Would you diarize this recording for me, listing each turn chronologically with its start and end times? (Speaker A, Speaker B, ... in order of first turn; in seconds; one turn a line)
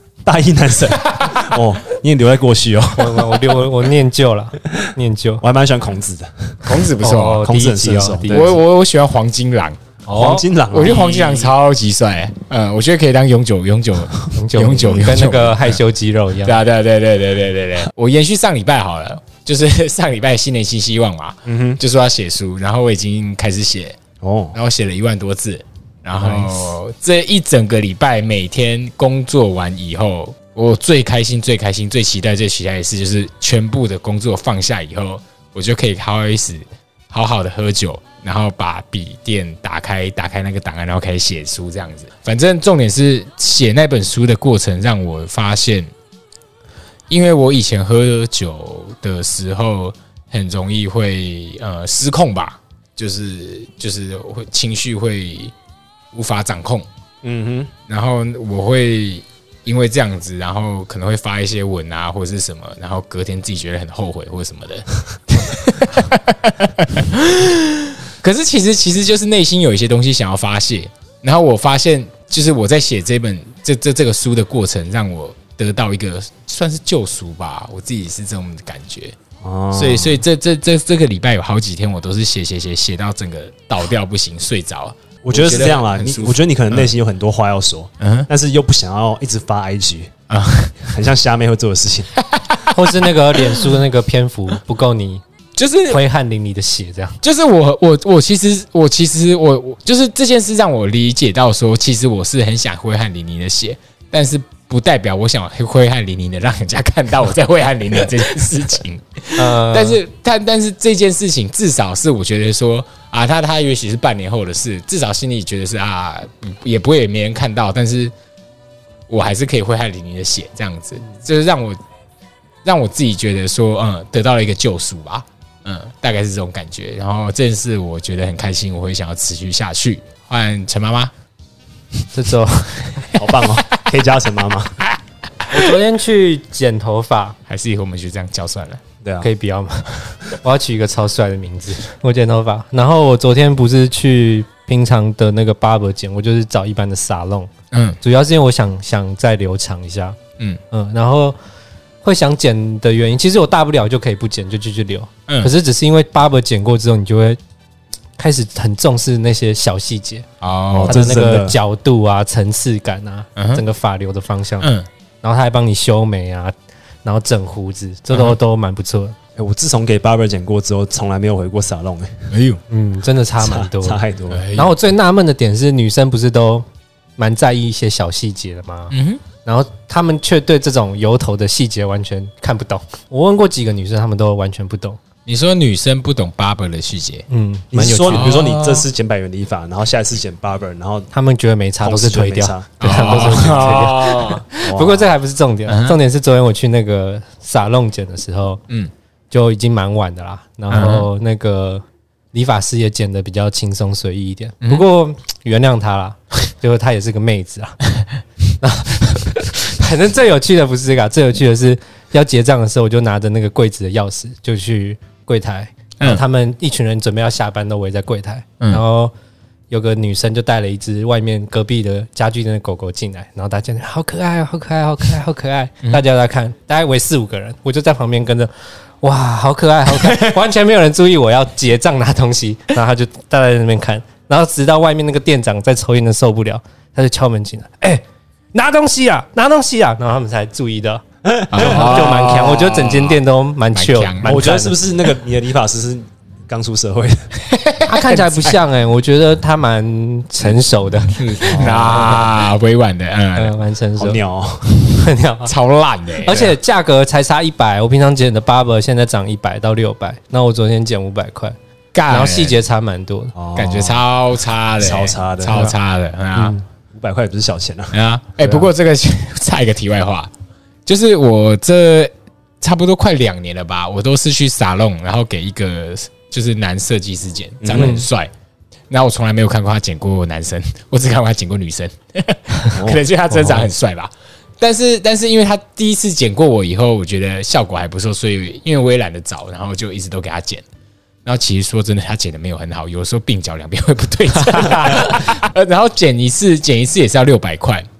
Speaker A: 0.2-3.5
Speaker B: 1.1-1.4
Speaker C: 2.9-5.4
Speaker A: 5.4-6.6
Speaker B: 6.6-7.5
Speaker C: 7.0-8.6
Speaker A: 7.4-8.6
Speaker B: 8.3-9.8
Speaker A: 10.1-11.5
Speaker C: 10.1-10.4
Speaker B: 10.7-15.8
Speaker C: 14.3-16.6
Speaker B: 16.4-24.0
Speaker A: 21.4-21.8
Speaker A: 24.2-24.6
Speaker B: 24.5-45.9
Speaker B: 47.1-55.5
Speaker B: 56.1-56.9
Speaker A: 57.2-57.7
Speaker B: 57.9-79.2
Speaker A: 79.4-80.2
Speaker B: 79.7-86.9
Speaker A: 85.2-90.1
Speaker B: 88.0-88.3
Speaker B: 90.3-90.9
Speaker A: 90.8-92.1
Speaker B: 92.3-92.9
Speaker C: 92.7-95.2
Speaker B: 95.5-96.0
Speaker C: 95.9-97.2
Speaker B: 97.2-118.1
Speaker C: 109.3-110.0
Speaker B: 119.1-121.8
Speaker B: 122.6-131.1
Speaker C: 132.1-132.9
Speaker A: 133.1-134.8
Speaker C: 135.5-137.3
Speaker B: 137.5-138.8
Speaker A: 139.0-139.3
Speaker C: 139.2-150.2
Speaker B: 147.7-148.0
Speaker C: 150.7-151.3
Speaker C: 152.0-157.4
Speaker C: 158.2-160.2
Speaker B: 160.4-161.0
Speaker A: 160.8-161.6
Speaker C: 160.8-164.7
Speaker B: 163.3-163.6
Speaker B: 164.6-164.9
Speaker C: 165.2-166.5
Speaker C: 167.0-169.2
Speaker A: 169.3-172.3
Speaker B: 172.3-172.6
Speaker C: 172.7-176.7
Speaker A: 173.4-174.4
Speaker B: 174.3-174.8
Speaker C: 177.2-185.0
Speaker B: 178.9-179.2
Speaker B: 185.2-187.3
Speaker C: 187.3-188.3
Speaker A: 187.7-191.1
Speaker B: 188.1-188.9
Speaker C: 191.1-198.6
Speaker A: 191.8-194.1
Speaker B: 192.8-194.4
Speaker A: 194.6-195.1
Speaker B: 195.7-196.0
Speaker C: 199.3-207.8
Speaker B: 200.7-201.1
Speaker B: 204.6-204.9
Speaker C: 208.6-219.1
Speaker C: 219.7-238.0
Speaker B: 229.9-230.3
Speaker C: 238.5-244.8
Speaker A: 241.3-242.1
Speaker B: 241.5-243.2
Speaker B: 243.7-244.4
Speaker A: 244.2-247.3
Speaker B: 247.5-248.6
Speaker C: 247.9-252.4
Speaker B: 251.1-253.6
Speaker A: 251.5-252.1
Speaker C: 253.3-254.2
Speaker A: 254.0-254.9
Speaker C: 254.9-255.5
Speaker B: 255.5-256.4
Speaker C: 256.2-261.6
Speaker A: 256.3-256.5
Speaker B: 261.9-262.6
Speaker C: 262.1-263.3
Speaker A: 263.4-264.0
Speaker B: 263.5-266.6
Speaker A: 264.8-265.7
Speaker C: 266.3-266.6
Speaker A: 266.9-268.7
Speaker B: 267.9-270.3
Speaker B: 270.9-278.3
Speaker A: 277.6-278.1
Speaker C: 277.7-278.1
Speaker B: 278.9-290.6
Speaker A: 282.7-283.0
Speaker B: 291.2-297.9
Speaker C: 294.6-294.9